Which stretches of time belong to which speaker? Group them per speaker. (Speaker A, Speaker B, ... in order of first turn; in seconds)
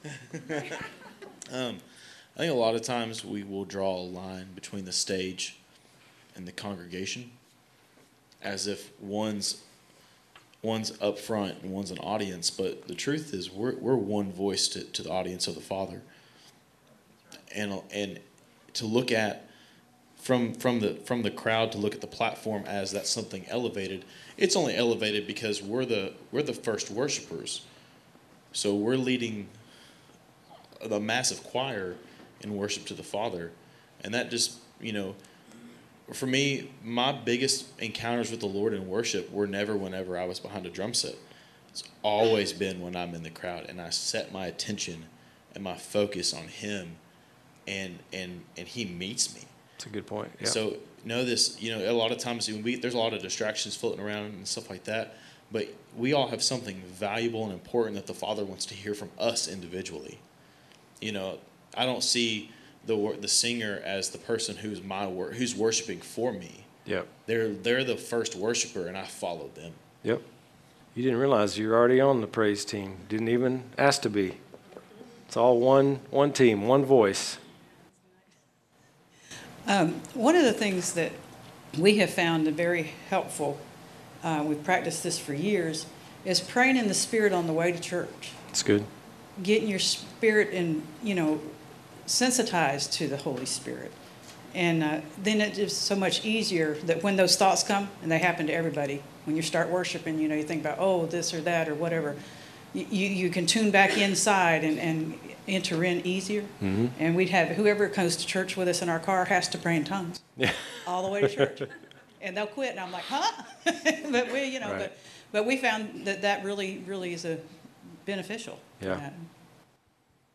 Speaker A: 0.2-0.8, 1.5-1.8, 2.4-5.6, 6.3-7.4, 8.4-9.8, 10.6-16.1, 17.5-19.5, 20.2-27.6, 28.5-29.8, 30.8-35.2, 36.1-41.2, 41.7-47.0, 47.7-49.5, 50.4-60.2, 61.0-69.8
Speaker B: 49.8-50.6, 70.9-74.4, 75.3-77.4, 88.5-88.9, 106.6-106.9, 110.4-111.5, 114.6-114.9, 118.8-119.0
Speaker C: 79.7-81.2, 81.7-83.6, 84.2-88.4, 89.4-94.0, 94.5-102.2, 102.7-111.7, 112.2-119.3